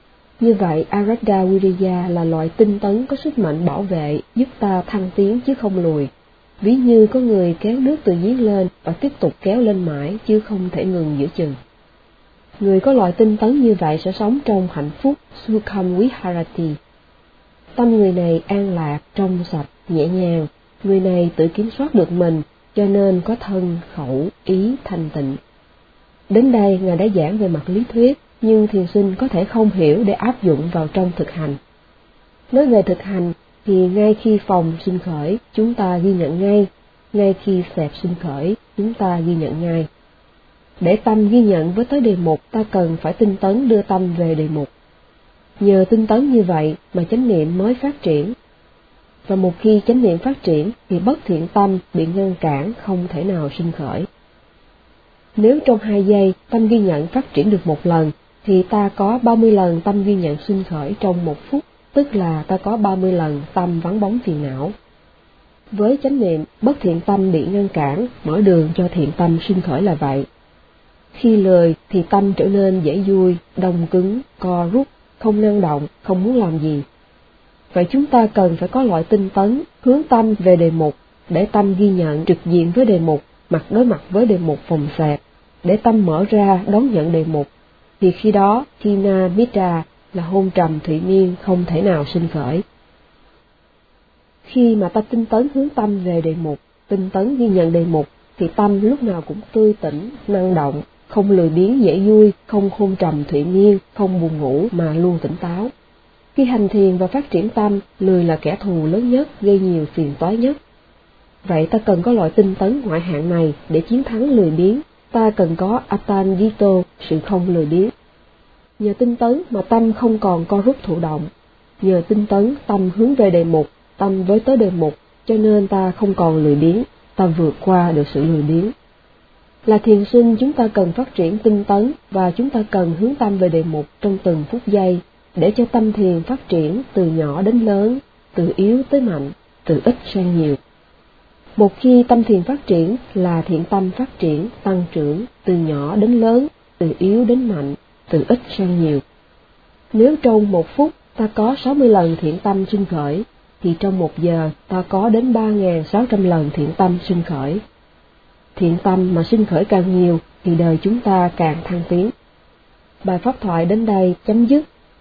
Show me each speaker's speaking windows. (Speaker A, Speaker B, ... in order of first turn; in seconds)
Speaker A: 0.4-6.1, 6.6-11.6, 12.6-16.8, 17.8-25.4, 26.3-31.6, 32.5-39.9, 40.8-44.7, 45.6-48.3, 49.3-54.1, 55.4-64.7, 65.7-70.2, 71.1-76.8, 77.7-87.5, 88.0-92.6, 94.5-105.7, 106.3-110.6, 111.5-117.9, 118.8-121.3, 121.8-128.7, 129.7-140.6, 141.6-149.0, 149.9-157.6, 158.6-162.1, 163.0-164.6